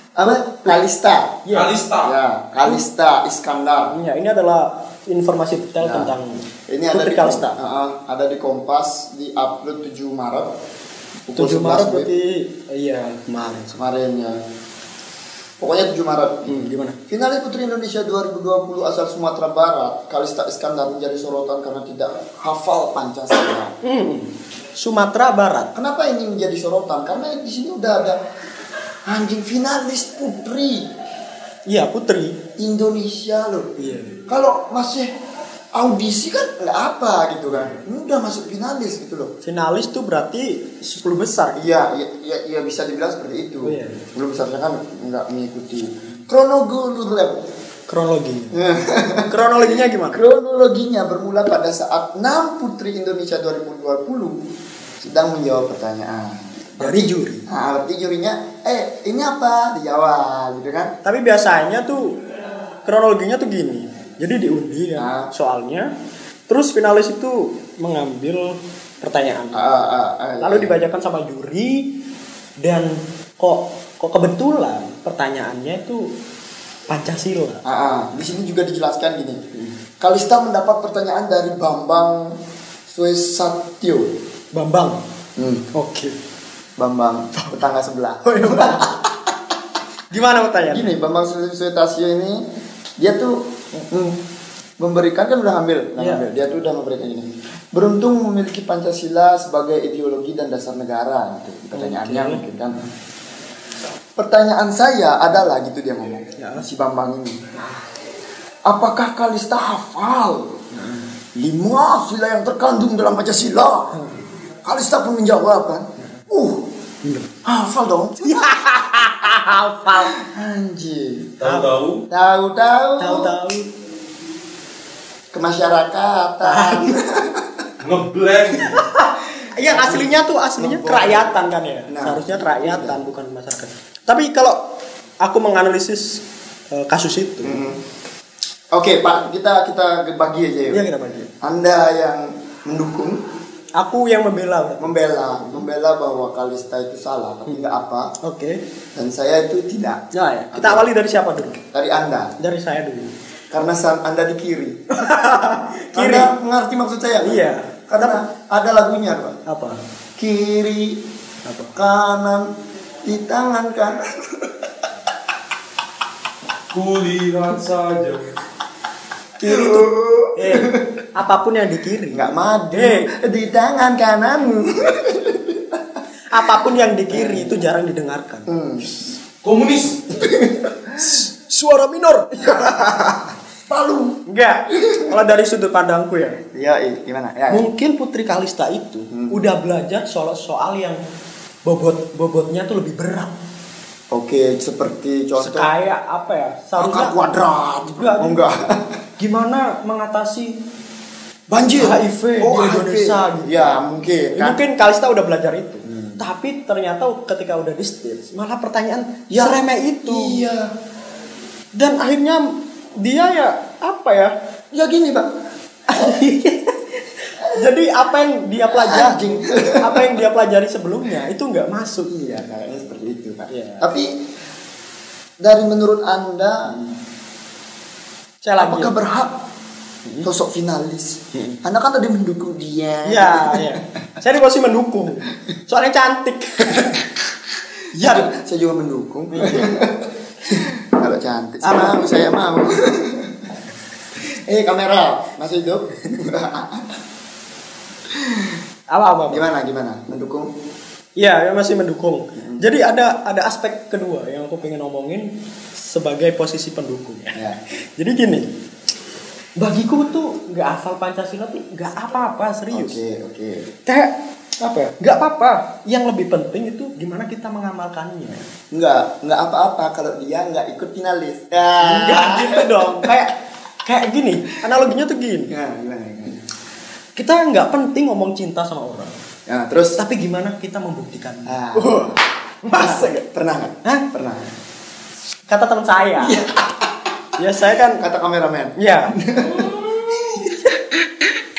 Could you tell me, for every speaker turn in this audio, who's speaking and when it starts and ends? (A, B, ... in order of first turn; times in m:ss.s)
0:00.2-0:01.4 A
0:01.4-0:01.7 B
0:01.5-0:02.1 C
0:02.0-0:03.9 A
0:03.9-0:06.4 B
0:05.8-0:06.1 A
0:06.7-0:10.5 A
0:06.9-0:07.5 B
0:11.3-0:12.1 A
0:11.4-0:13.8 B
0:13.7-0:14.4 A
0:15.6-0:23.7 A
0:16.5-0:17.0 B
0:23.8-0:25.7 B
0:25.8-0:28.2 A
0:29.1-0:30.9 A
0:31.7-0:32.4 B
0:32.6-0:33.7 A
0:33.8-0:34.2 B
0:34.3-0:35.1 A
0:35.8-0:39.3 A
0:37.5-0:37.8 B
0:39.4-0:41.7 B
0:41.6-0:47.4 A
0:43.6-0:44.0 B
0:47.9-0:48.6 B
0:48.5-0:54.4 A
0:49.3-0:50.2 B
0:55.0-1:00.9 A
0:56.8-0:57.4 B
1:01.0-1:02.2 B
1:02.8-1:05.9 B
1:05.0-1:05.3 A
1:06.5-1:09.7 B
1:09.5-1:10.8 A
1:10.4-1:11.9 B
1:12.6-1:16.1 B
1:16.9-1:17.6 B
1:17.6-1:19.4 A
1:20.0-1:22.3 A
1:22.9-1:24.0 A
1:24.5-1:25.0 B
1:25.4-1:25.6 A
1:25.7-1:26.1 B
1:26.8-1:29.2 A
1:28.2-1:28.9 B
1:30.1-1:30.9 B
1:30.7-1:32.4 A
1:33.0-1:34.1 A
1:34.8-1:42.7 A
1:36.0-1:36.2 B
1:41.8-1:42.4 B
1:44.2-1:47.4 A
1:46.4-1:46.6 B
1:48.7-1:50.5 A
1:50.7-1:51.1 B
1:51.4-1:53.9 A
1:53.9-1:54.2 B
1:54.6-1:56.6 A
1:57.0-1:57.3 B
1:57.4-1:58.7 A
1:58.2-2:00.1 B
2:00.0-2:01.3 A
2:01.4-2:02.0 C
2:01.4-2:01.7 B
2:02.1-2:03.3 A
2:03.0-2:03.7 B
2:05.3-2:07.7 A
2:06.4-2:06.9 B
2:07.8-2:08.8 C
2:08.6-2:14.6 B
2:09.6-2:11.3 A
2:11.9-2:13.0 A
2:15.2-2:16.2 B
2:16.7-2:17.6 B
2:17.4-2:17.8 A
2:18.7-2:20.8 A
2:20.7-2:21.3 B
2:21.4-2:23.2 A
2:23.8-2:25.6 B
2:24.8-2:28.1 A
2:28.2-2:28.6 B
2:29.0-2:30.9 A
2:30.1-2:31.6 B
2:31.6-2:32.3 A
2:32.4-2:33.1 B
2:33.5-2:34.8 A
2:34.9-2:36.3 B
2:36.0-2:39.4 A
2:37.2-2:38.2 B
2:39.5-2:39.8 B
2:40.2-2:41.0 A
2:41.4-2:41.8 B
2:41.8-2:42.5 A
2:43.0-2:44.7 A
2:46.7-2:48.3 C
2:49.4-2:53.1 B
2:49.4-2:50.8 A
2:52.1-2:55.8 A
2:56.3-2:58.5 B
2:57.1-2:57.6 A
2:58.5-2:58.9 A
2:59.4-3:00.1 C
3:00.2-3:00.9 A
3:01.0-3:02.7 B
3:02.3-3:04.2 A
3:04.3-3:06.4 B
3:04.9-3:05.1 A
3:06.5-3:07.7 A
3:07.5-3:11.0 B
3:09.1-3:09.4 A
3:11.7-3:13.3 B
3:14.1-3:15.7 A
3:15.4-3:17.1 B
3:16.8-3:18.6 A
3:18.0-3:18.4 B
3:19.2-3:20.5 B
3:21.5-3:24.6 A
3:21.8-3:23.8 B
3:24.3-3:30.4 B
3:25.9-3:26.2 A
3:29.3-3:30.7 A
3:31.8-3:34.3 B
3:34.7-3:35.3 A
3:35.9-3:39.2 B
3:35.9-3:36.2 A
3:37.4-3:37.7 A
3:38.7-3:40.2 A
3:39.8-3:42.1 B
3:42.1-3:44.1 A
3:43.5-3:43.9 B
3:45.4-3:46.8 A
3:48.4-3:49.0 B
3:48.6-3:49.3 A
3:50.2-3:53.8 A
3:51.3-3:51.6 B
3:53.1-3:57.0 B
3:57.9-4:03.5 A
3:58.0-3:58.3 B
3:59.3-3:59.7 B
4:01.6-4:02.0 B
4:04.2-4:07.0 A
4:08.1-4:08.6 A
4:08.9-4:09.4 B
4:09.3-4:10.5 A
4:11.2-4:15.3 B
4:12.4-4:12.6 A
4:15.8-4:18.5 B
4:19.6-4:23.0 B
4:22.7-4:23.7 A
4:23.9-4:28.4 B
4:28.7-4:33.1 A
4:31.8-4:35.5 B
4:35.5-4:36.4 A
4:37.2-4:39.1 B
4:39.5-4:40.0 A
4:40.0-4:43.2 B
4:41.5-4:42.2 A
4:42.7-4:44.4 A
4:45.5-4:46.4 B
4:46.2-4:47.1 A
4:47.4-4:48.0 B
4:48.0-4:50.5 A
4:48.8-4:49.2 B
4:50.3-4:50.8 B